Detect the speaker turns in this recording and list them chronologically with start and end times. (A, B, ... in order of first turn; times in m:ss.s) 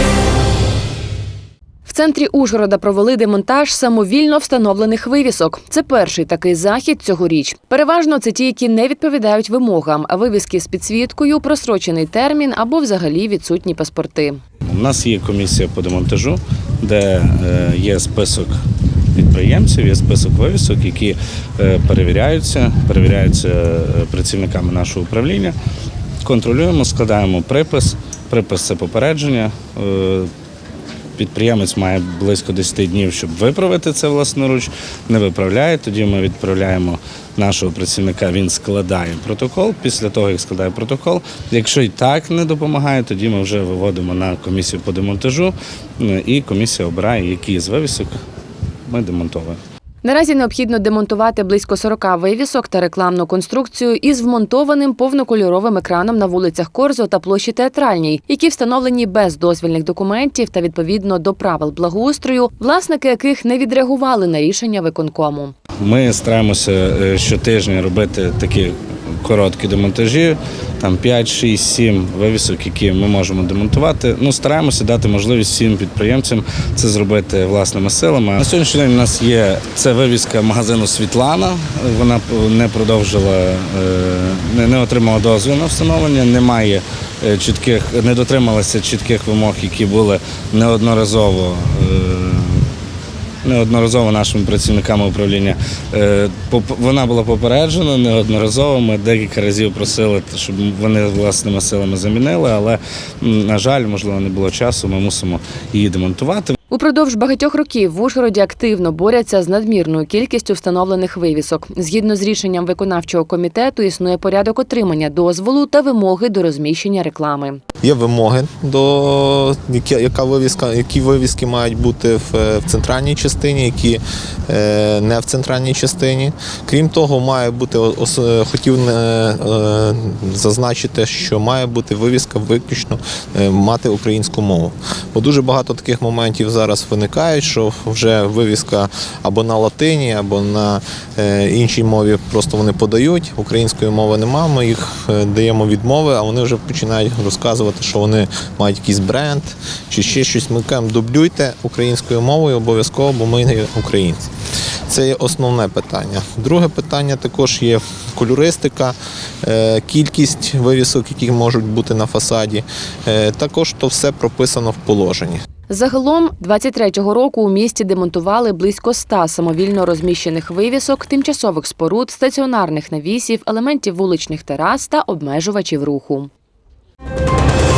0:01.8-0:14.4 A
0:14.6-0:18.5 B
0:19.2-0:25.5 B
0:26.2-0:30.3 B
0:31.2-0:48.2 B
0:48.9-0:49.6 B
0:50.0-1:05.5 A
1:05.8-1:32.7 B
1:33.4-1:46.6 B
1:46.7-1:57.6 A
1:57.8-2:34.3 C
2:34.9-2:45.4 C
2:45.7-2:56.3 A